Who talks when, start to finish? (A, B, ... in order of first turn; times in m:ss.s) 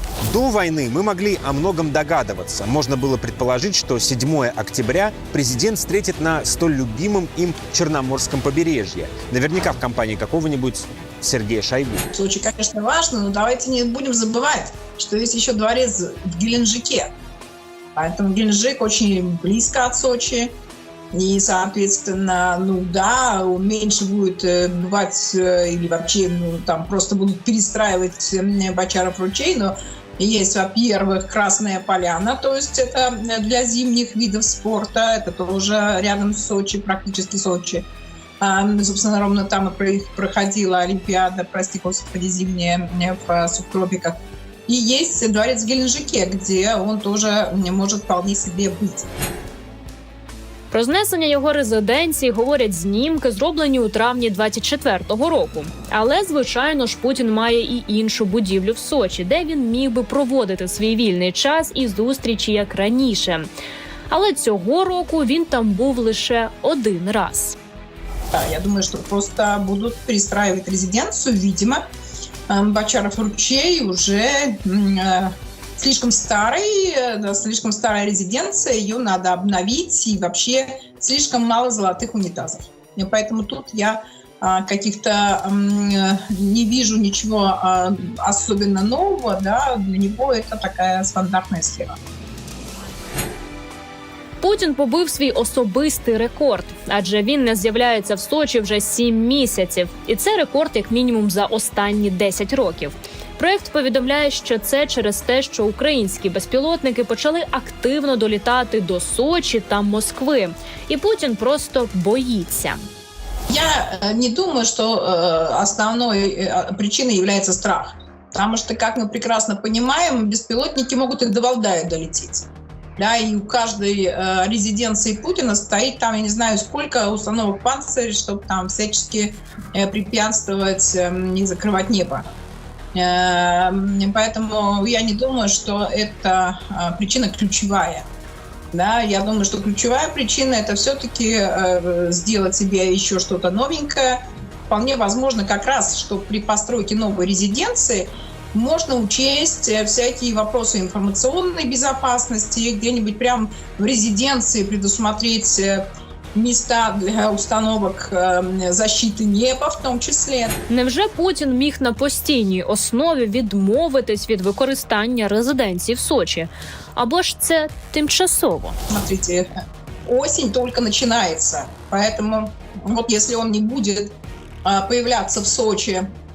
0:00.2-0:12.0 A
0:12.1-0:17.1 B
0:18.0-0:20.5 B
0:21.1-0:37.8 B
0:38.4-0:44.2 B
0:44.7-0:49.1 B
0:50.7-1:03.5 C
1:04.1-1:07.6 C
1:08.3-1:11.8 B
1:12.5-1:32.0 B
1:34.4-1:52.8 C
1:53.5-2:12.3 B
2:12.9-2:18.1 B
2:18.7-2:35.8 B
2:36.4-2:40.6 B
2:40.7-2:48.8 C
2:48.9-2:49.5 B
2:50.1-2:54.1 B
2:54.6-2:56.1 B